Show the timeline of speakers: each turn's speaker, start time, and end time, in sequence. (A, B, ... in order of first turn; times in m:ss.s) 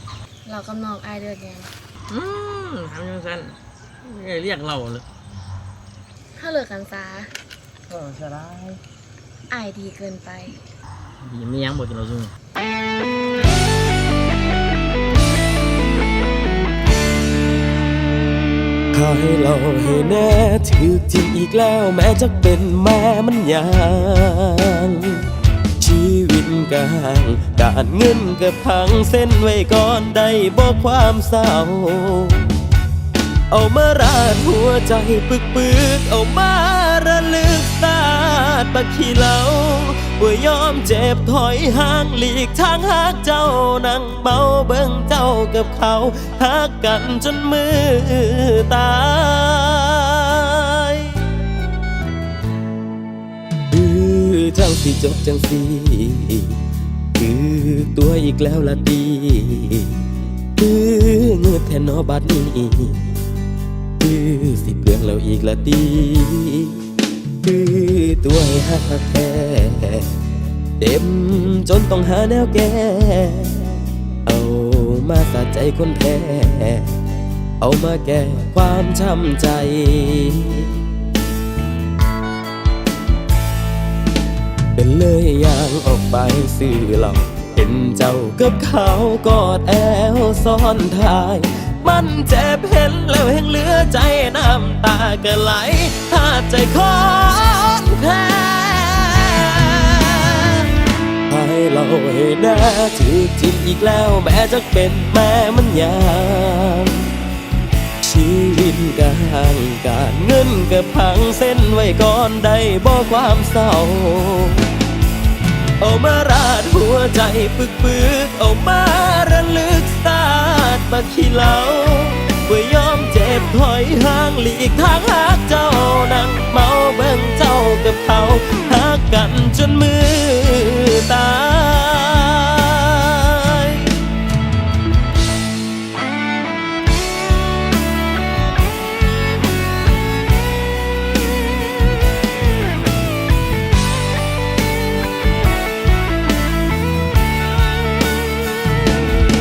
0:00.4-0:01.7 A
0:02.1-0:05.0 B
0:06.4-0:07.3 A
0:07.9-0:08.8 B
0:09.5-0:10.6 A
0:11.2-0:12.3 B
0:18.9-0:32.6 C
0:33.5-0:51.3 C
0:53.7-0:56.6 C
0:57.2-1:03.1 C
1:04.0-1:06.8 C
1:07.4-1:10.2 C
1:10.8-1:17.0 C
1:17.6-1:20.8 C
1:24.8-1:40.7 C
1:41.3-1:47.1 C
1:48.0-1:54.7 C
1:55.8-2:14.1 C